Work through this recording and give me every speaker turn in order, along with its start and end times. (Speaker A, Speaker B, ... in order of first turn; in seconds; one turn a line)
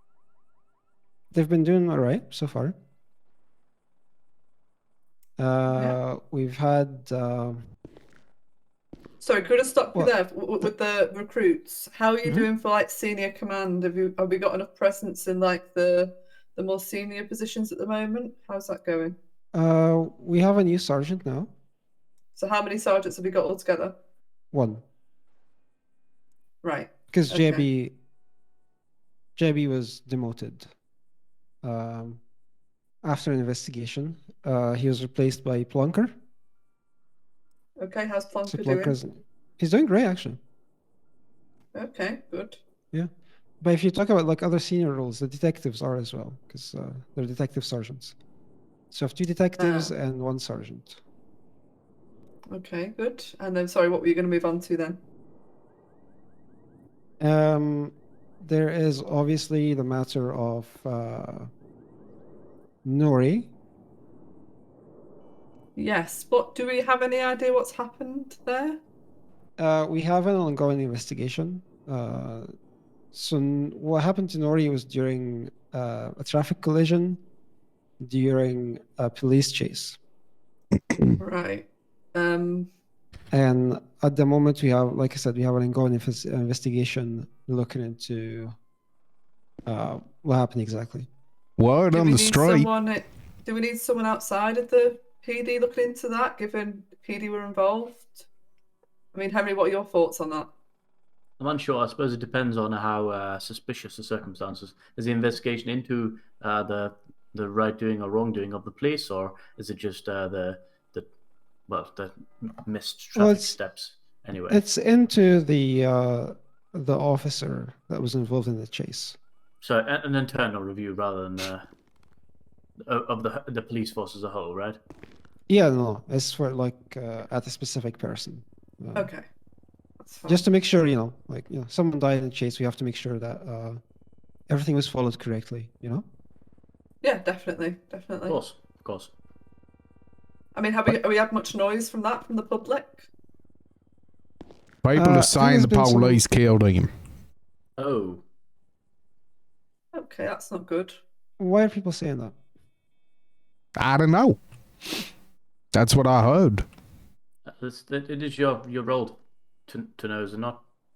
Speaker A: 1.3-2.8
Speaker A: 5.4-7.6
Speaker B: 5.7-6.0
Speaker B: 9.2-19.2
Speaker A: 19.5-21.5
Speaker B: 22.4-23.9
Speaker A: 24.5-24.8
Speaker B: 26.6-27.6
Speaker A: 27.1-27.9
Speaker A: 29.4-30.7
Speaker A: 31.6-32.2
Speaker A: 33.0-36.1
Speaker B: 37.8-39.0
Speaker A: 38.5-40.4
Speaker B: 41.7-42.6
Speaker A: 43.6-48.1
Speaker A: 48.9-51.0
Speaker B: 49.6-49.9
Speaker B: 52.5-55.0
Speaker A: 57.2-61.5
Speaker A: 62.8-63.5
Speaker B: 65.8-68.8
Speaker A: 69.6-72.5
Speaker A: 73.1-77.2
Speaker A: 78.0-80.0
Speaker B: 81.2-82.7
Speaker A: 83.3-88.5
Speaker A: 89.7-91.1
Speaker C: 91.6-92.7
Speaker B: 91.9-98.3
Speaker B: 99.1-100.5
Speaker D: 101.4-111.1
Speaker D: 111.7-114.6
Speaker A: 113.2-113.6
Speaker A: 114.5-119.2
Speaker D: 119.6-121.7
Speaker D: 122.8-124.8
Speaker A: 125.5-129.1
Speaker B: 128.9-129.2
Speaker B: 130.0-130.4
Speaker A: 130.3-133.8
Speaker A: 134.5-136.0
Speaker B: 137.0-138.4
Speaker D: 138.3-139.1
Speaker B: 140.5-143.1
Speaker C: 144.8-146.9
Speaker A: 144.9-146.2
Speaker D: 147.8-148.2
Speaker B: 149.9-151.0
Speaker A: 151.4-152.3
Speaker C: 153.8-154.4
Speaker C: 155.7-156.7
Speaker D: 157.5-160.6